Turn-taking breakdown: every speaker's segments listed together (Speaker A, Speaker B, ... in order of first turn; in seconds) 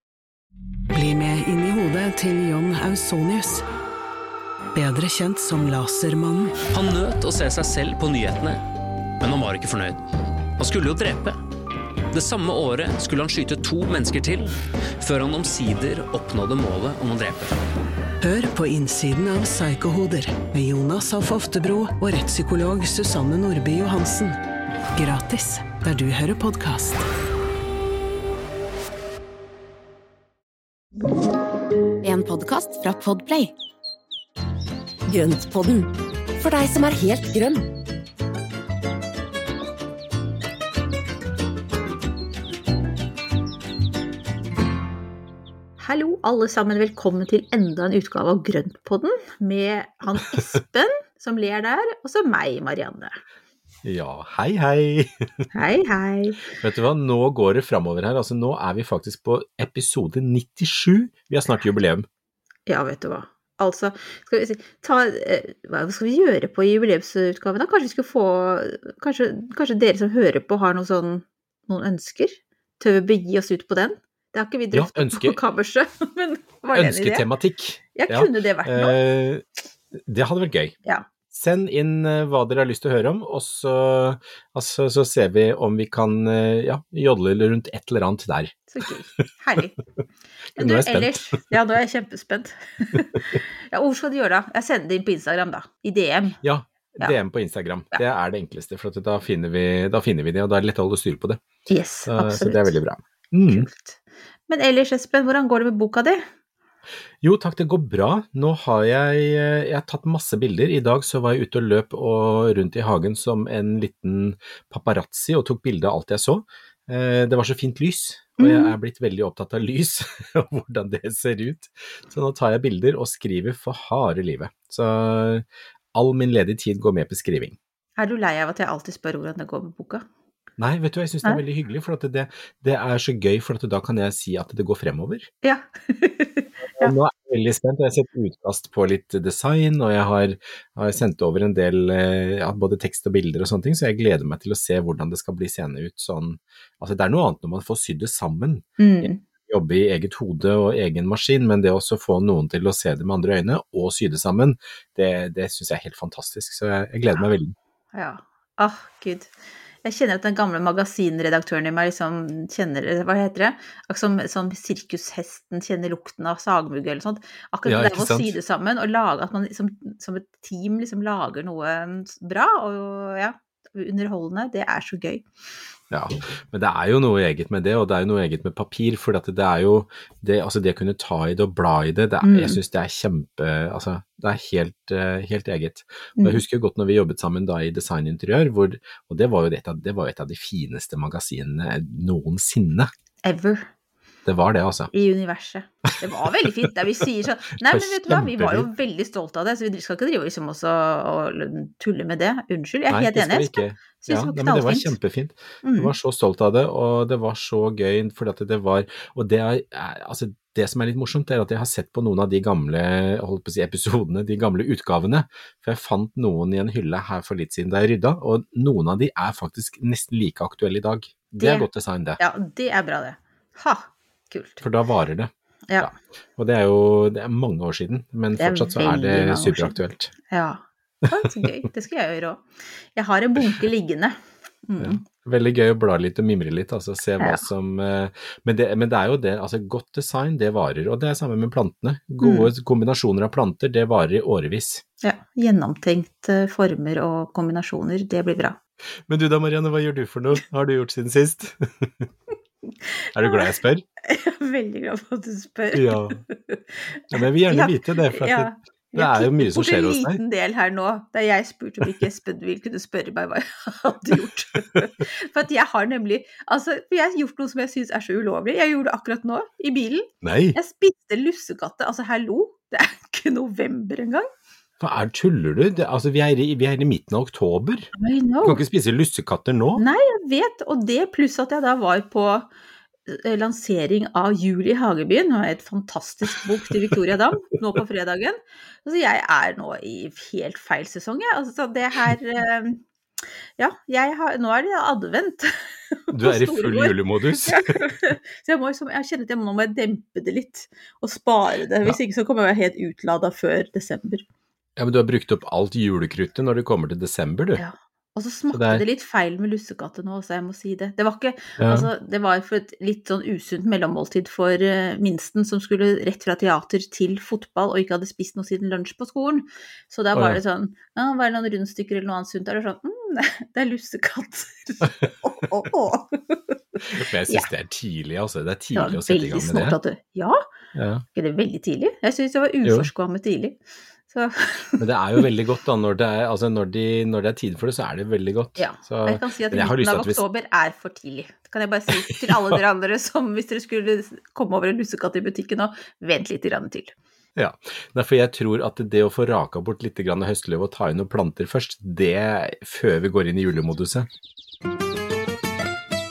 Speaker A: 0.9-3.6, 4.7-6.6, 18.2-24.4, 24.9-27.1
Speaker B: 6.7-8.6, 9.2-10.0, 10.6-11.4, 12.1-17.6
Speaker C: 32.0-33.5, 35.1-37.7
Speaker D: 45.8-53.2, 55.5-56.5, 62.7-77.2, 78.0-79.0, 88.7-89.8, 90.6-96.4, 101.7-102.8, 103.5-106.3, 118.4-118.8, 128.0-130.1, 135.4-136.9, 148.8-149.2, 157.9-159.3, 159.8-175.2, 182.2-182.6, 193.2-193.7, 194.9-204.9, 205.6-205.9, 221.4-221.7, 222.2-224.6, 228.4-229.8, 230.3-235.0, 237.2-237.4, 242.2-242.5, 245.0-248.6, 252.8-253.5, 254.0-274.3, 278.0-278.6, 279.8-282.5, 283.1-292.8, 293.6-304.2, 307.6-327.5, 328.8-330.4, 331.1-335.2, 338.6-346.9
Speaker E: 53.8-55.2, 56.5-62.1, 74.7-75.4, 76.7-80.8, 81.3-88.6, 90.6-91.4, 96.4-101.4, 102.1-103.7, 107.2-127.6, 130.6-135.3, 136.8-157.6, 167.7-168.3, 175.9-192.9, 194.2-194.9, 197.6-198.7, 202.9-222.2, 224.6-230.1, 234.8-244.8, 249.1-252.1, 253.1-253.8, 255.7-256.2, 257.1-260.2, 270.2-270.6, 274.8-277.9, 278.4-279.9, 296.1-297.8, 304.8-307.6, 308.5-308.8, 311.6-311.9, 320.1-320.4, 326.9-329.8, 330.7-331.1, 332.6-332.9, 334.8-340.2, 342.1-342.6, 347.4-354.1